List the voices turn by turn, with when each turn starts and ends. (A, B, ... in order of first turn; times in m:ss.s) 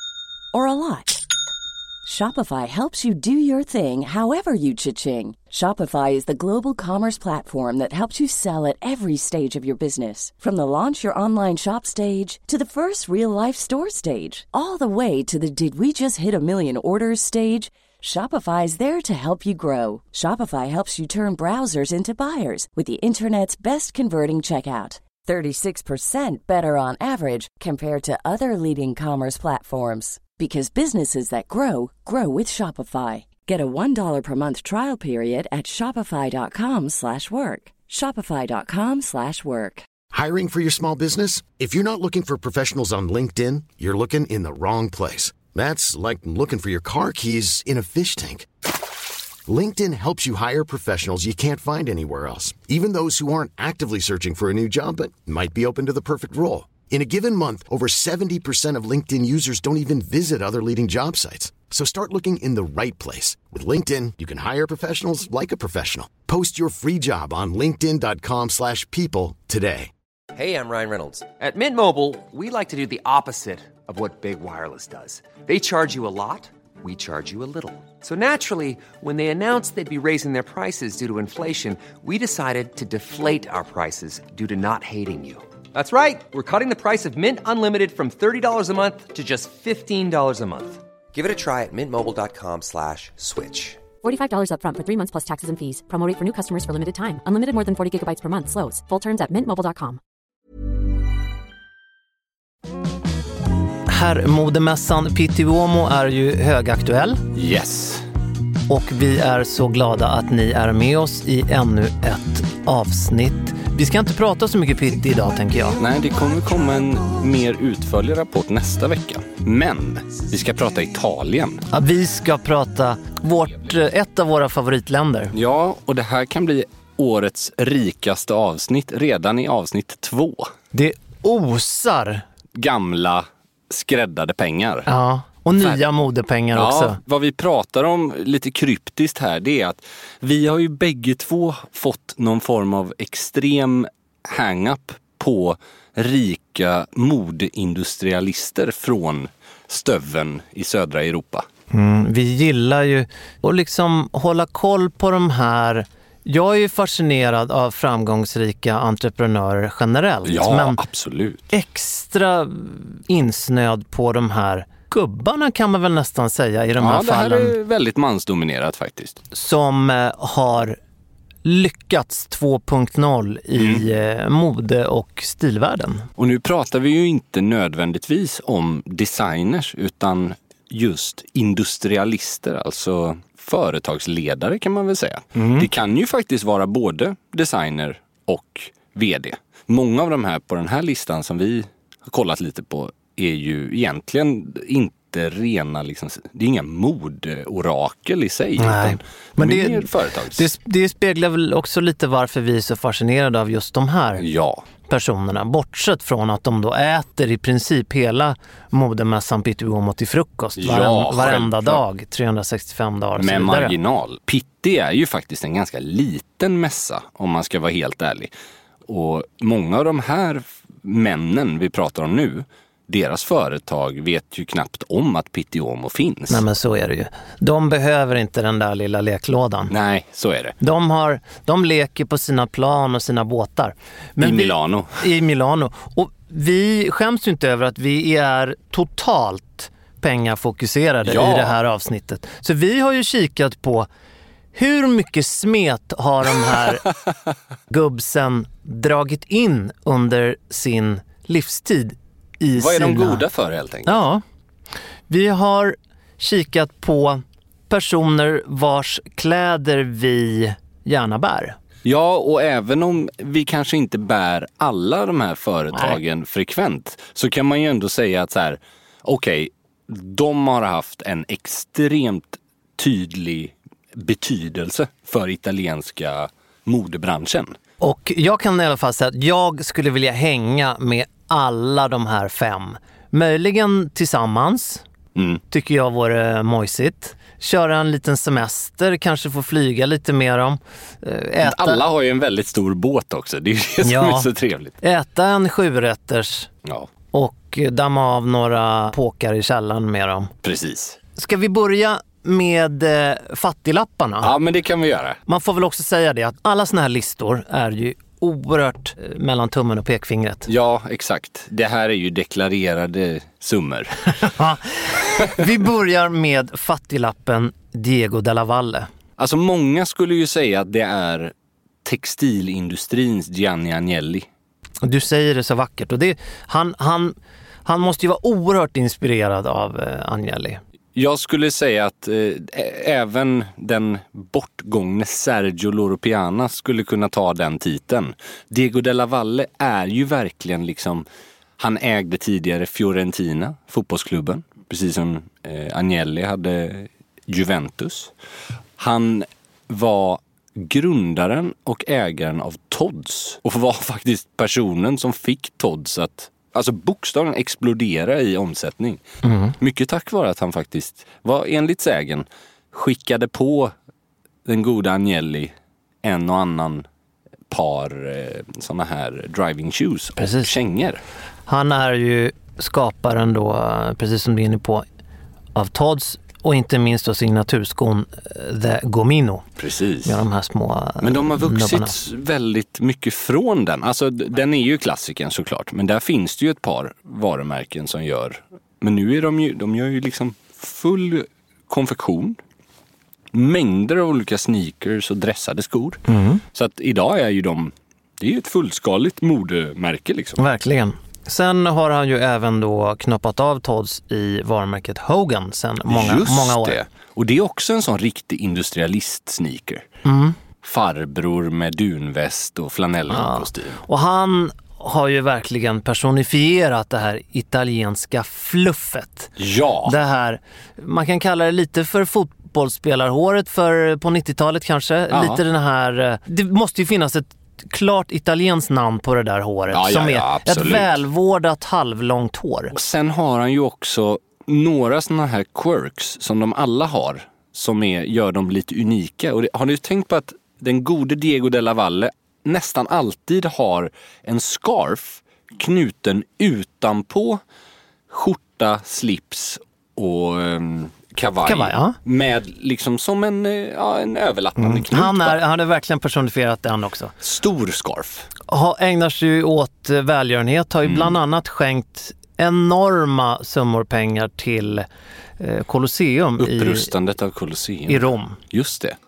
0:00.5-0:01.2 A
0:02.0-0:39.8 A
0:40.1-0:48.5 B
0:49.4-1:09.9 B
1:10.3-1:33.8 C
1:34.0-1:40.0 D
1:43.9-1:47.2 E
1:47.3-1:48.0 F
1:48.7-1:55.8 E
1:55.8-2:01.6 F
2:01.7-2:05.3 E
2:05.3-2:10.5 F
2:10.7-2:12.2 E
2:12.6-2:14.9 F
2:14.9-2:17.0 E
2:16.5-2:31.5 F
2:31.7-2:40.8 E
2:40.2-2:41.4 F
2:41.5-2:47.5 E
2:46.8-2:49.2 F
2:49.3-2:50.8 E
2:51.4-2:56.0 E
2:53.5-2:53.8 F
2:56.2-3:20.5 F
3:05.4-3:05.6 E
3:18.6-3:24.2 E
3:24.2-3:24.6 F
3:24.9-3:33.7 E
3:30.6-3:31.8 F
3:33.2-3:38.3 F
3:38.9-3:46.4 F
3:46.3-3:49.7 E
3:49.7-3:50.6 F
3:50.6-4:03.9 E
3:54.2-3:55.0 F
4:01.0-4:01.6 F
4:04.5-4:06.8 E
4:07.7-4:13.2 E
4:12.6-4:14.0 F
4:13.8-4:14.2 E
4:15.1-4:21.6 E
4:21.8-4:37.6 F
4:37.8-4:44.8 E
4:45.2-4:45.4 F
4:45.5-4:51.8 E
4:51.4-4:54.8 F
4:53.8-4:54.3 E
4:54.8-4:56.5 E
4:57.1-5:00.3 E
5:00.4-5:01.0 F
5:01.2-5:04.3 E
5:04.2-5:05.2 F
5:05.3-5:10.5 E
5:10.5-5:14.3 F
5:14.2-5:18.9 E
5:19.2-5:21.3 F
5:21.8-5:24.3 F
5:24.8-5:30.6 E
5:30.9-5:41.0 F
5:41.6-5:48.1 F
5:48.8-5:59.0 F
5:59.2-5:59.5 E
5:59.6-6:03.7 F
6:04.4-6:06.8 F
6:07.5-6:11.0 F
6:10.2-6:10.5 E
6:11.5-6:14.8 E
6:15.5-6:19.4 E
6:19.6-6:20.2 F
6:20.0-6:21.9 E
6:21.0-6:32.4 F
6:33.3-6:36.0 F
6:36.1-6:36.4 E
6:36.5-6:40.4 F
6:40.4-6:46.8 E
6:45.9-6:49.8 F
6:50.0-6:50.4 E
6:50.6-6:53.8 F
6:53.1-6:59.3 E
6:59.4-6:59.9 F
6:59.8-7:12.7 E
7:05.1-7:05.4 F
7:09.7-7:10.9 F
7:12.7-7:27.4 F
7:28.1-7:35.4 F
7:31.4-7:32.0 E
7:34.6-7:37.1 E
7:37.2-7:38.3 F
7:38.5-7:44.9 E
7:40.8-7:41.1 F
7:45.4-7:46.9 E
7:46.4-7:49.0 F
7:47.9-7:48.4 E